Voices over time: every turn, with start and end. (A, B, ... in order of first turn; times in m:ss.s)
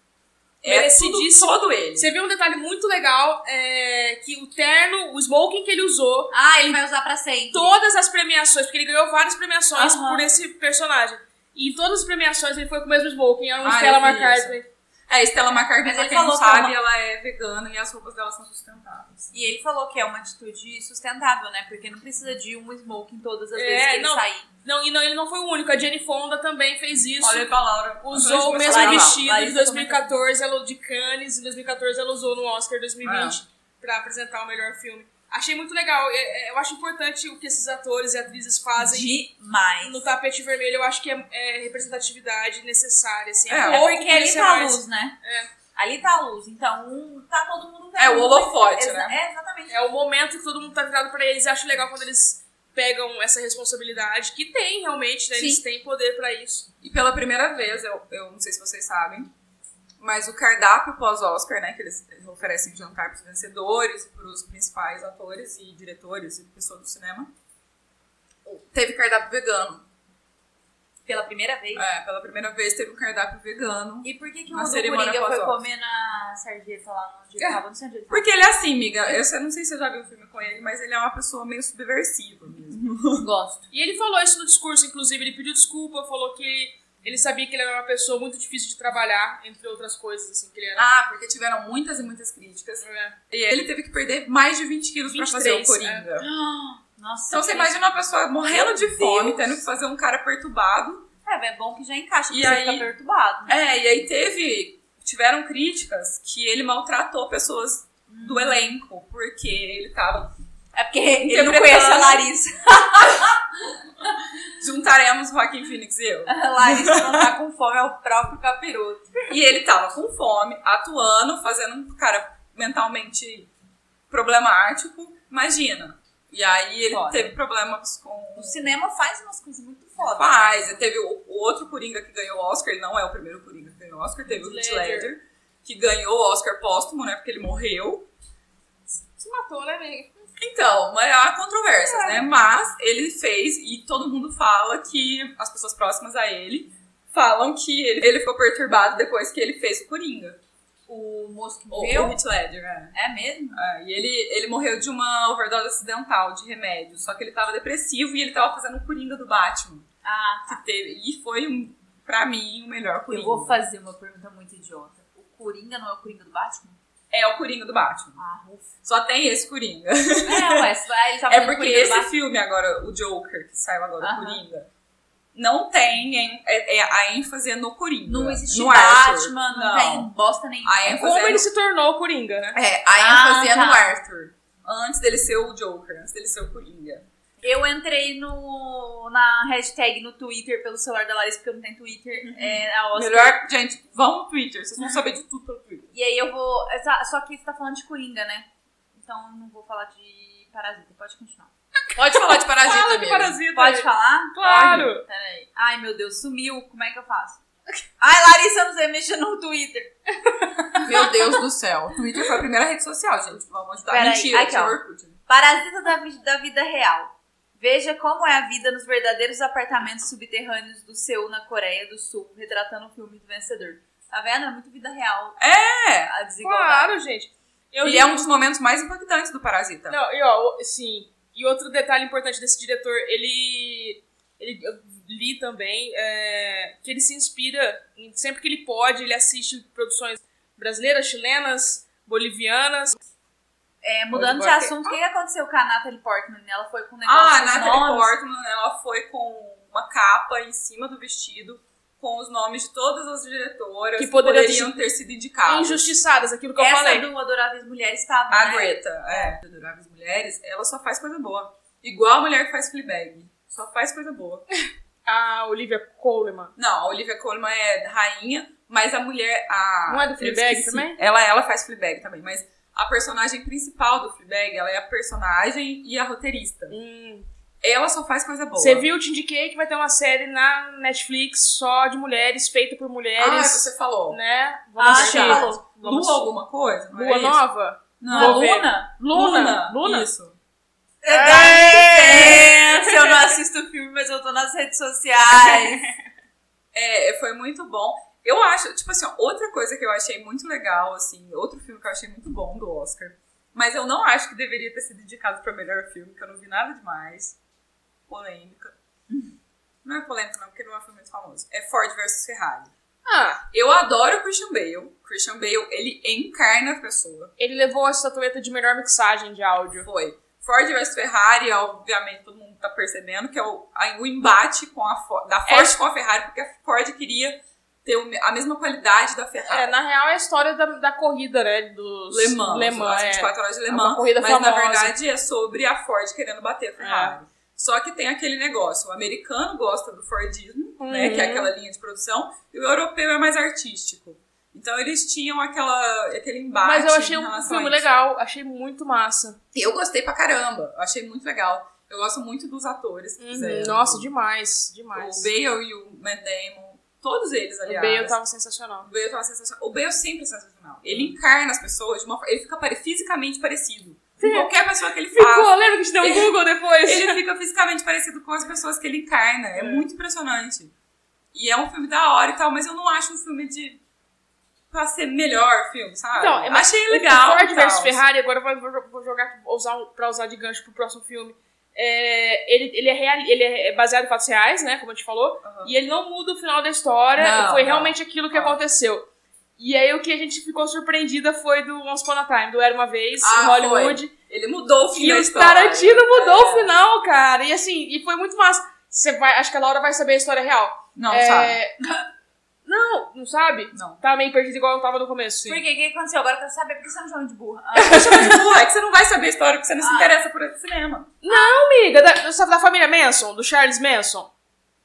0:00.6-0:02.1 A
0:00.6-0:06.3 B
0:06.3-0:07.7 C
0:07.5-0:14.6 B
0:09.7-0:10.3 C
0:13.6-0:14.6 A
0:15.1-0:19.3 A
0:15.8-0:16.7 C
0:19.3-0:24.5 C
0:23.5-0:27.5 B
0:27.2-0:29.4 A
0:28.0-0:39.2 B
0:28.6-0:30.0 C
0:33.0-0:33.4 A
0:38.8-0:40.0 C
0:39.8-0:45.5 B
0:43.5-0:43.8 A
0:43.7-0:45.2 C
0:45.7-0:49.8 C
0:48.0-0:49.1 A
0:49.7-0:56.7 B
0:55.3-0:55.6 C
0:56.8-0:59.3 A
1:00.0-1:07.3 A
1:08.4-1:09.8 A
1:11.0-1:11.8 C
1:11.8-1:15.6 A
1:14.0-1:18.3 C
1:17.4-1:23.2 A
1:23.2-1:23.6 C
1:23.7-1:30.8 B
1:30.7-1:36.3 A
1:32.8-1:33.2 B
1:35.1-1:36.1 B
1:36.2-1:37.8 C
1:37.3-1:41.1 A
1:38.5-1:39.6 C
1:41.2-1:43.6 C
1:42.3-1:42.9 A
1:43.5-1:50.3 A
1:48.1-1:48.7 C
1:50.7-1:53.4 C
1:51.2-1:52.3 A
1:54.6-1:57.3 A
1:56.2-1:59.2 C
1:59.3-2:03.5 A
2:04.1-2:08.8 A
2:06.9-2:07.3 C
2:08.4-2:10.8 C
2:10.2-2:18.1 A
2:14.3-2:15.1 B
2:18.9-2:20.3 B
2:20.4-2:30.4 A
2:21.9-2:22.2 B
2:30.9-2:32.2 C
2:31.7-2:32.9 A
2:32.9-2:33.6 C
2:33.5-2:39.8 A
2:40.0-2:40.6 C
2:40.5-2:43.6 A
2:43.1-2:46.8 C
2:47.1-2:48.2 A
2:48.2-2:48.7 C
2:48.8-2:50.7 A
2:50.2-2:52.1 C
2:51.3-2:54.7 A
2:54.0-2:54.4 C
2:55.3-3:00.1 A
2:58.1-3:01.0 C
3:00.6-3:01.4 A
3:00.9-3:02.6 B
3:02.5-3:07.0 A
3:03.0-3:03.9 C
3:07.4-3:13.4 C
3:12.3-3:15.9 A
3:15.9-3:18.5 C
3:19.0-3:21.5 C
3:21.9-3:23.4 A
3:21.9-3:25.0 B
3:23.5-3:27.4 C
3:24.5-3:24.8 A
3:28.0-3:29.9 C
3:30.7-3:31.1 C
3:30.8-3:35.2 A
3:33.9-3:45.4 C
3:45.4-3:46.1 A
3:46.0-3:47.0 C
3:46.4-3:48.2 B
3:47.8-3:50.0 A
3:49.9-4:03.0 B
4:03.8-4:08.1 C
4:04.1-4:05.0 A
4:07.0-4:15.9 A
4:14.0-4:14.8 B
4:15.5-4:17.1 B
4:16.6-4:19.4 C
4:18.3-4:24.4 A
4:25.0-4:26.5 B
4:26.6-4:36.8 A
4:29.9-4:31.0 B
4:36.7-4:37.3 B
4:37.6-4:38.9 A
4:38.6-4:46.3 B
4:43.2-4:44.2 A
4:44.8-4:45.6 C
4:44.9-4:47.4 A
4:46.9-4:50.1 B
4:48.0-4:50.4 A
4:48.1-4:48.9 C
4:51.0-4:55.9 C
4:51.1-4:53.3 B
4:55.4-4:55.7 B
4:56.7-5:07.4 A
5:08.1-5:08.8 A
5:09.8-5:12.7 A
5:13.0-5:13.4 B
5:13.5-5:17.3 A
5:17.4-5:19.9 B
5:19.8-5:29.8 A
5:25.5-5:25.8 B
5:29.5-5:34.9 B
5:32.1-5:47.9 A
5:36.8-5:37.2 B
5:40.8-5:41.5 B
5:46.6-5:49.4 B
5:49.5-5:54.1 A
5:53.2-5:55.3 B
5:54.9-5:58.2 A
5:57.6-5:58.9 B
5:58.8-6:10.7 A
6:00.8-6:01.1 B
6:04.2-6:04.5 B
6:05.1-6:07.2 B
6:09.6-6:09.8 B
6:11.3-6:13.8 A
6:14.7-6:18.0 A
6:16.2-6:29.0 B
6:25.4-6:25.7 A
6:27.2-6:28.6 A
6:29.6-6:34.1 B
6:33.2-6:36.7 A
6:34.9-6:41.7 B
6:41.0-6:41.6 A
6:42.6-6:45.6 B
6:43.7-6:44.0 A
6:45.4-6:48.3 C
6:47.8-6:48.4 B
6:47.8-6:51.1 A
6:49.8-6:50.1 C
6:51.2-6:54.3 B
6:51.3-6:51.6 C